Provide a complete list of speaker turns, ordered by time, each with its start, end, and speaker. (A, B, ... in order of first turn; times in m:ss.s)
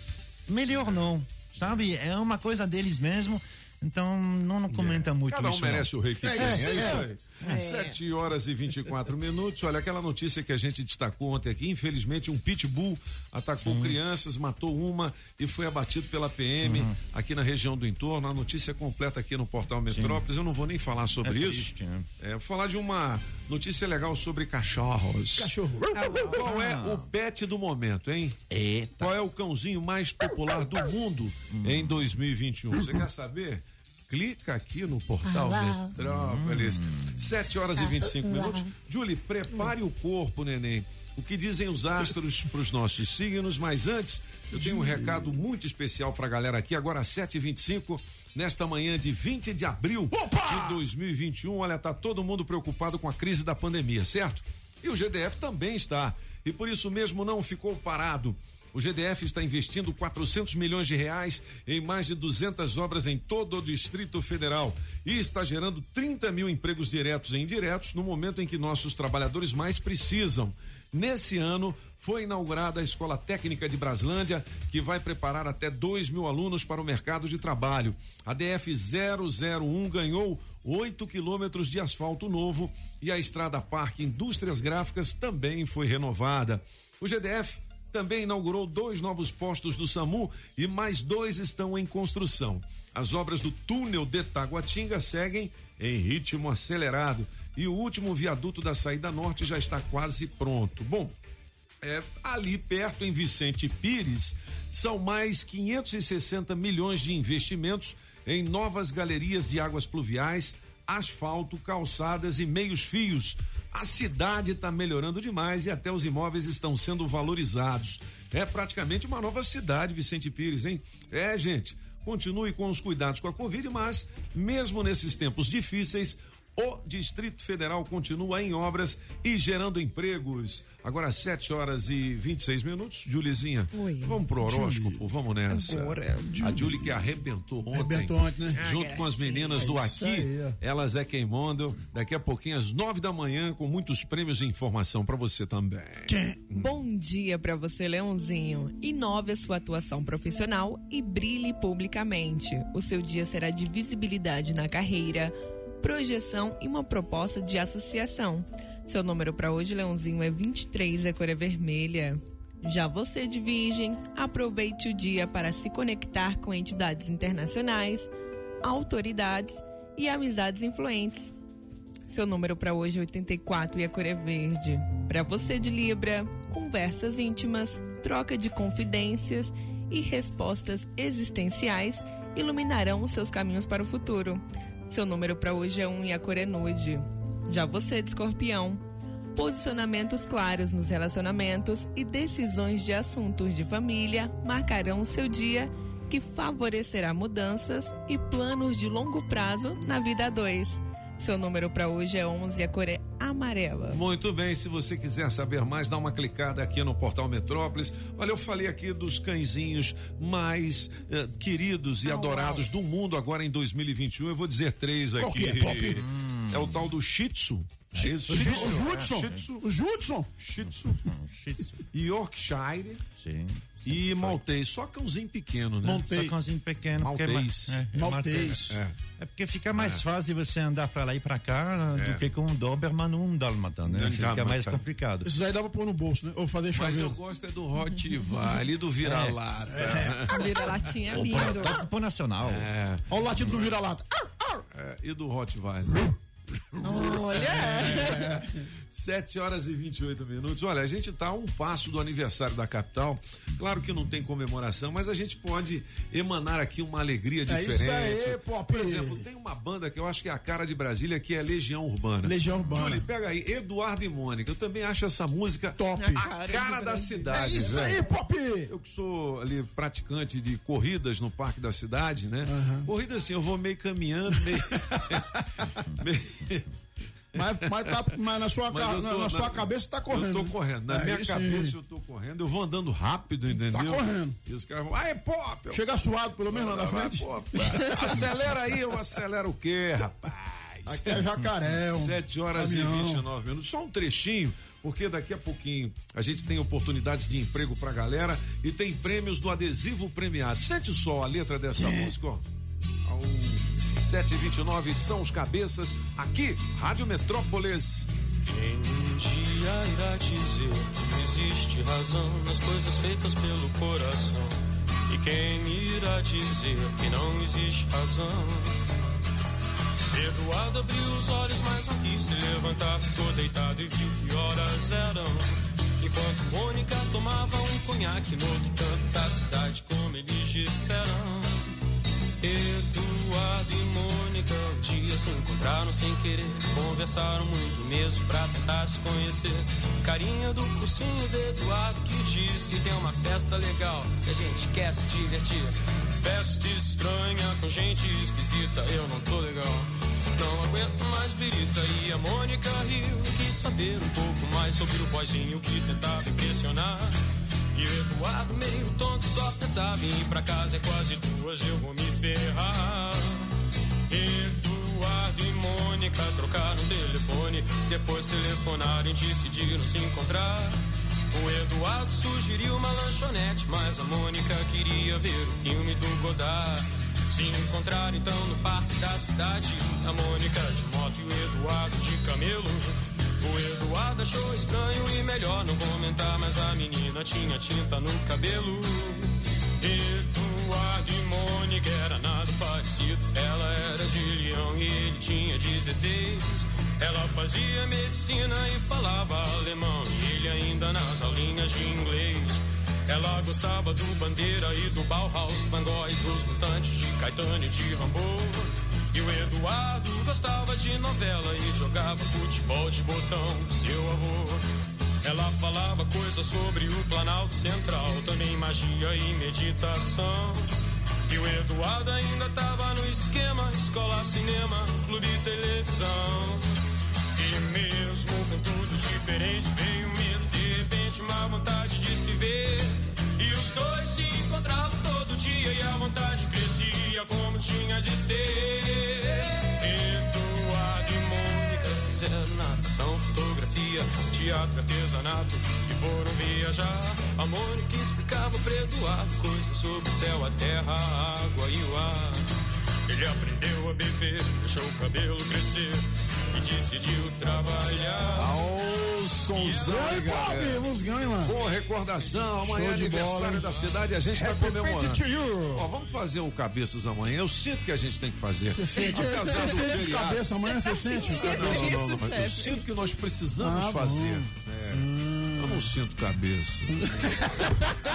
0:00.5-0:07.0 A
0:00.7-0:01.1 B
0:04.7-0:28.4 B
0:06.2-0:07.0 C
0:07.4-0:08.0 D
0:13.6-0:14.0 A
0:16.6-0:17.0 A
0:19.9-0:20.2 A
0:21.2-0:22.1 A
0:25.4-0:25.9 C
0:26.0-0:27.0 A
0:28.5-0:29.1 A
0:29.0-1:41.1 B
0:31.5-0:32.1 A
0:35.9-0:37.2 A
0:44.5-0:45.4 C
0:50.1-0:50.8 C
1:41.8-2:26.6 B
2:13.7-2:14.2 D
2:14.4-2:15.0 C
2:15.5-2:16.4 D
2:16.4-2:16.7 C
2:17.7-2:18.6 C
2:18.6-2:19.6 D
2:19.6-2:20.5 C
2:26.1-2:26.4 C
2:26.5-2:48.1 D
2:48.6-2:51.3 D
2:52.1-3:08.8 D
3:09.3-3:24.0 D
3:23.9-3:39.6 B
3:32.0-3:32.6 D
3:35.2-3:36.0 C
3:35.9-3:36.9 A
3:37.9-3:39.4 A
3:38.3-3:40.3 C
3:40.4-3:41.0 B
3:40.6-3:41.8 A
3:41.9-3:43.0 B
3:43.2-3:44.4 A
3:43.8-3:46.1 B
3:45.8-3:46.3 C
3:46.0-3:48.6 A
3:47.0-3:47.9 B
3:47.9-3:48.8 C
3:48.4-3:48.9 B
3:49.2-3:55.3 A
3:49.7-3:50.0 B
3:51.9-3:52.2 B
3:53.9-3:54.8 B
3:55.2-3:57.2 C
3:56.7-4:01.4 B
3:59.0-3:59.4 A
3:59.7-4:00.3 C
4:00.3-4:01.8 D
4:01.1-4:02.6 A
4:02.4-4:03.7 B
4:03.1-4:04.0 C
4:04.7-4:06.1 B
4:06.8-4:08.2 D
4:06.9-4:08.0 B
4:07.5-4:08.6 C
4:08.9-4:28.0 B
4:17.5-4:19.2 C
4:22.2-4:23.0 C
4:25.8-4:26.2 C
4:26.0-4:27.4 D
4:27.3-4:28.7 C
4:28.7-4:35.2 B
4:32.4-4:32.9 C
4:36.0-4:36.6 B
4:37.3-4:41.7 C
4:38.7-4:45.8 B
4:43.7-4:44.4 C
4:45.7-4:48.3 C
4:46.5-4:51.2 B
4:50.9-4:53.2 C
4:51.9-5:02.4 B
5:01.7-5:02.1 C
5:03.0-5:08.1 B
5:08.4-5:14.6 E
5:15.1-5:18.8 E
5:20.1-5:31.6 E
5:32.4-5:57.2 E
5:57.7-6:03.4 E
6:04.1-6:10.8 E
6:11.3-6:54.6 E
6:55.2-7:00.7 E
7:01.3-7:06.6 E
7:07.4-7:32.5 E
7:33.1-7:38.5 E
7:38.3-7:40.9 B
7:39.5-7:39.9 E
7:39.8-7:41.5 C
7:41.4-7:45.2 B
7:42.6-7:43.6 C
7:44.3-7:45.8 C
7:45.7-7:50.5 B
7:48.7-7:52.0 C
7:49.0-7:49.8 D
7:50.8-7:52.8 D
7:51.2-7:55.0 B
7:53.6-7:55.9 C
7:55.6-7:57.4 B
7:57.0-7:57.8 C